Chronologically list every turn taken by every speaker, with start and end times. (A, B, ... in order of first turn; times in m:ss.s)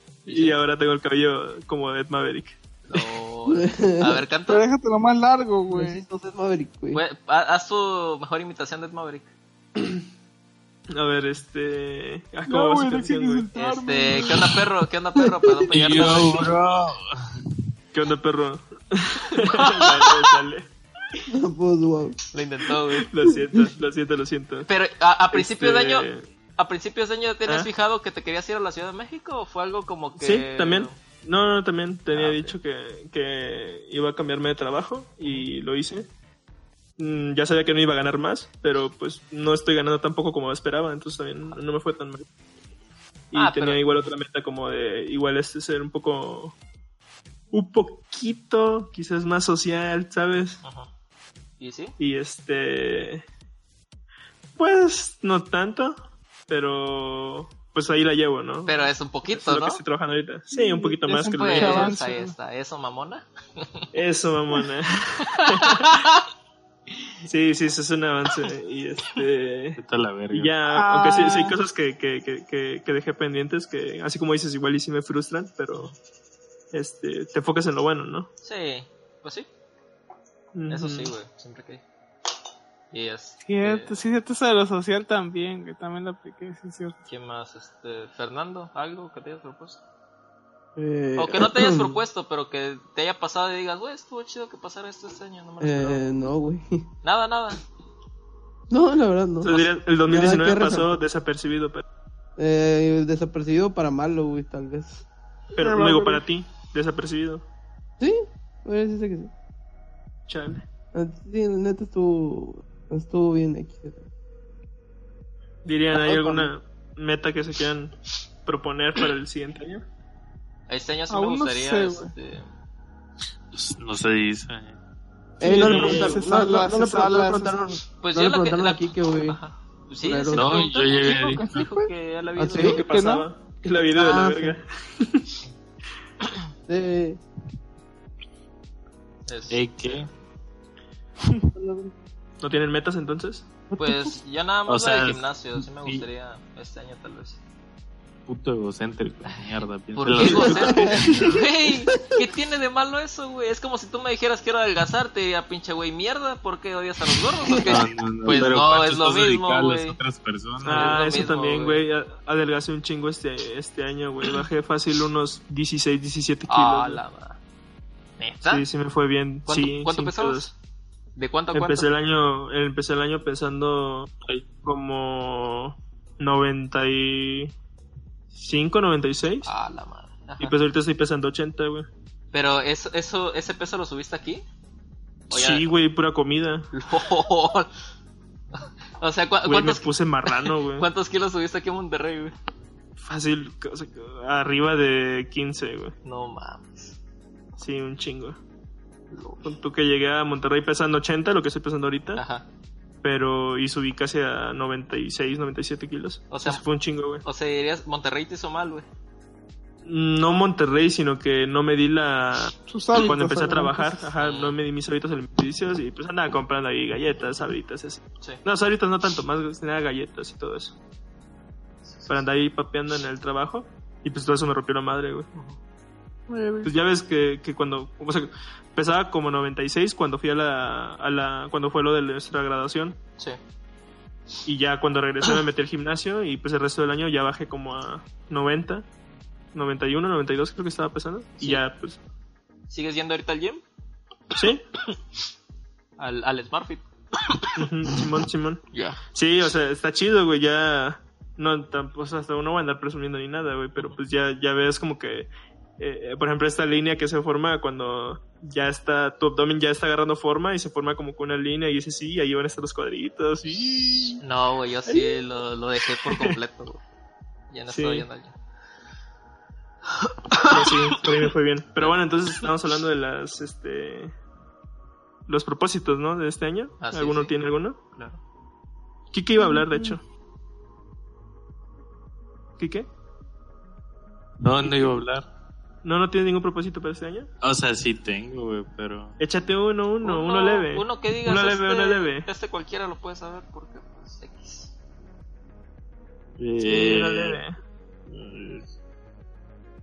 0:00.2-0:00.6 A
0:00.3-0:02.6 B
0:02.9-0:04.6 A
0:03.5-0:04.2 C
0:04.5-0:06.0 D
0:05.7-0:07.0 C
0:06.9-0:09.3 A
0:10.9-0:13.5 B
0:12.5-0:14.6 D
0:13.5-0:16.5 A
0:15.2-0:15.6 C
0:15.7-0:17.5 E
0:17.9-0:20.7 B
0:19.4-0:20.2 A
0:21.3-0:22.2 C
0:22.3-0:23.1 A
0:22.9-0:24.7 B
0:24.6-0:31.0 A
0:25.3-0:26.3 B
0:27.4-0:27.7 B
0:30.2-0:36.1 B
0:32.1-0:32.6 A
0:37.0-0:42.2 B
0:43.3-0:46.5 B
0:43.3-0:44.0 A
0:47.5-0:50.6 B
0:50.6-0:50.9 A
0:51.6-0:51.9 A
0:52.0-0:53.2 B
0:54.6-1:02.0 B
0:58.6-0:59.8 A
1:00.5-1:02.3 D
1:01.2-1:03.8 A
1:03.9-1:05.9 B
1:05.6-1:06.0 A
1:07.3-1:09.8 B
1:09.8-1:10.6 E
1:10.3-1:15.9 B
1:10.7-1:11.6 D
1:16.7-1:18.3 B
1:18.4-1:19.5 A
1:20.5-1:21.1 B
1:20.7-1:21.8 A
1:22.9-1:24.0 A
1:23.4-1:26.9 D
1:27.1-1:29.8 A
1:30.8-1:32.0 C
1:31.2-1:36.2 A
1:35.6-1:36.8 C
1:37.0-1:37.6 A
1:38.7-1:41.0 C
1:39.4-1:41.8 B
1:42.4-1:45.0 C
1:45.5-1:47.4 B
1:45.6-1:46.2 D
1:48.0-1:49.3 C
1:50.3-1:50.6 B
1:50.9-1:54.0 C
1:55.6-1:59.8 B
1:55.9-1:56.5 C
2:00.7-2:02.5 A
2:01.1-2:02.1 D
2:03.5-2:04.8 E
2:05.4-2:09.4 C
2:05.4-2:07.6 D
2:05.6-2:06.2 B
2:07.9-2:12.8 A
2:10.0-2:10.6 C
2:10.3-2:11.6 E
2:11.1-2:11.9 D
2:12.4-2:12.8 C
2:12.5-2:13.3 D
2:12.5-2:15.3 B
2:13.9-2:14.6 C
2:16.7-2:17.2 C
2:19.3-2:20.0 A
2:19.5-2:20.1 E
2:21.5-2:21.9 C
2:22.4-2:23.4 B
2:23.7-2:24.1 C
2:23.8-2:27.4 A
2:24.7-2:26.0 E
2:28.3-2:31.1 E
2:29.2-2:40.0 A
2:30.2-2:31.1 C
2:30.2-2:31.3 B
2:37.4-2:37.8 C
2:37.6-2:41.0 E
2:40.6-2:41.8 A
2:40.6-2:47.0 B
2:46.5-2:47.4 A
2:48.2-2:48.6 A
2:48.4-2:50.5 B
2:49.4-2:50.5 A
2:51.2-2:51.9 A
2:51.5-2:54.1 B
2:54.6-2:57.5 B
2:58.3-2:59.5 B
2:59.4-3:00.5 A
3:00.4-3:01.9 B
3:02.3-3:04.4 A
3:05.3-3:05.7 A
3:05.3-3:06.7 B
3:06.7-3:07.7 A
3:08.6-3:12.3 A
3:09.4-3:10.9 B
3:13.0-3:15.9 B
3:16.0-3:17.0 A
3:17.6-3:18.4 B
3:19.1-3:19.4 A
3:19.4-3:22.2 B
3:22.2-3:22.4 A
3:23.0-3:27.2 B
3:26.3-3:26.6 A
3:27.2-3:28.8 A
3:29.8-3:40.8 B
3:32.7-3:33.8 D
3:34.0-3:34.6 A
3:41.8-3:42.2 A
3:42.1-3:45.3 B
3:46.3-3:46.7 D
3:46.6-3:53.0 B
3:54.4-3:58.8 B
3:59.5-4:02.0 B
4:02.7-4:03.6 A
4:04.4-4:04.6 B
4:06.0-4:07.6 A
4:07.6-4:24.2 B
4:08.7-4:09.0 A
4:24.2-4:26.8 A
4:24.8-4:25.2 B
4:26.0-4:26.4 B
4:27.5-4:28.3 A
4:27.7-4:28.1 B
4:30.3-4:32.5 A
4:30.5-4:34.1 B
4:35.3-4:37.8 B
4:36.8-4:37.3 A
4:37.9-4:38.2 A
4:39.1-4:40.0 B
4:39.4-4:39.9 D
4:42.6-4:42.9 B
4:44.4-4:45.2 E
4:44.6-4:44.9 B
4:45.8-4:47.3 B
4:47.4-4:49.2 E
4:49.2-4:52.3 B
4:50.0-4:54.7 A
4:56.4-4:57.4 E
4:56.6-4:57.6 B
4:58.2-4:58.6 E